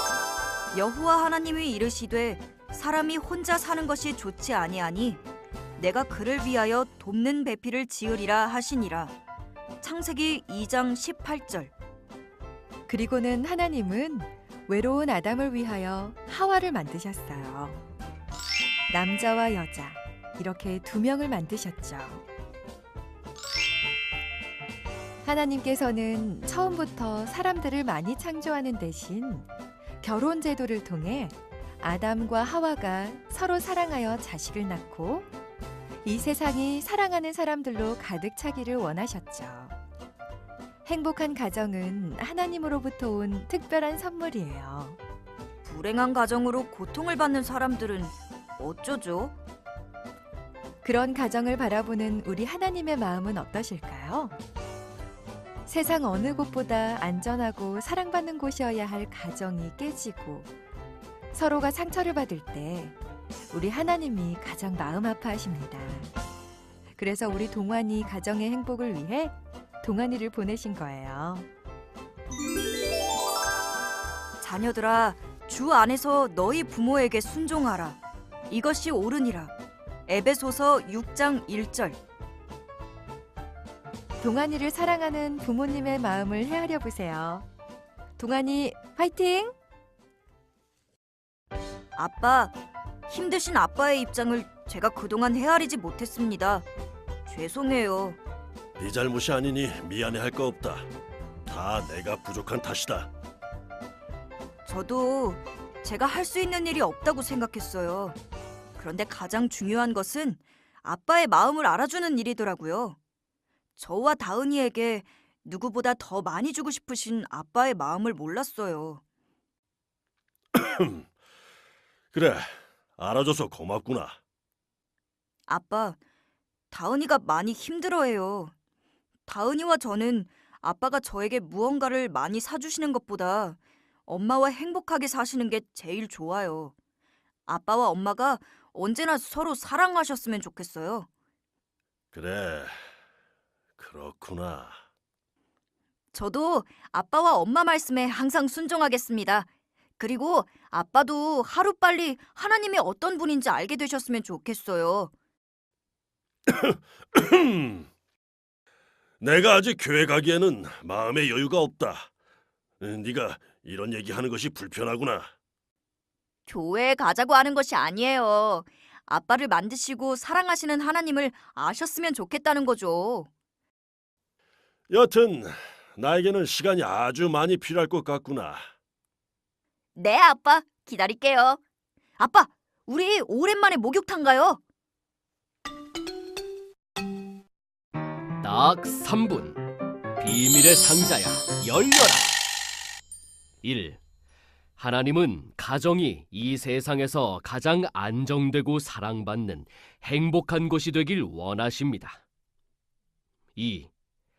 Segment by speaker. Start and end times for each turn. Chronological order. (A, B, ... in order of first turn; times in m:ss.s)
0:00.7-0:05.2 A
0:05.8-0:09.2 A
0:09.8-0:11.7 A
0:12.9-0:17.8 B
0:18.9-0:22.2 B
0:25.2-0:29.5 B
0:30.0-0:35.3 B
0:36.0-0:39.8 B
0:40.9-0:45.0 B
0:45.6-0:49.3 A
0:50.8-0:54.4 B
0:55.7-1:00.5 B
1:01.3-1:03.0 B
1:03.5-1:06.2 B
1:07.0-1:11.5 B
1:14.4-1:19.5 A
1:20.1-1:22.0 A
1:24.2-1:27.5 B
1:28.2-1:29.6 B
1:32.0-1:32.6 A
1:33.1-1:36.7 A
1:37.3-1:38.2 A
1:38.8-1:40.9 C
1:41.5-1:43.1 C
1:44.7-1:48.2 A
1:48.8-1:53.0 A
1:53.8-1:59.0 A
2:00.6-2:01.1 C
2:02.1-2:04.2 C
2:05.5-2:06.0 A
2:06.7-2:08.5 A
2:09.3-2:16.7 A
2:17.5-2:21.1 A
2:22.1-2:22.8 C
2:23.8-2:24.8 C
2:26.1-2:29.5 A
2:30.0-2:35.1 A
2:36.5-2:37.9 C
2:39.2-2:42.1 C
2:42.8-2:45.3 C
2:46.5-2:53.3 A
2:54.9-2:58.6 C
3:00.0-3:01.6 A
3:02.2-3:04.6 A
3:08.4-3:09.6 D
3:10.2-3:12.3 D
3:13.6-3:14.0 D
3:14.8-3:22.2 D
3:23.6-3:23.9 D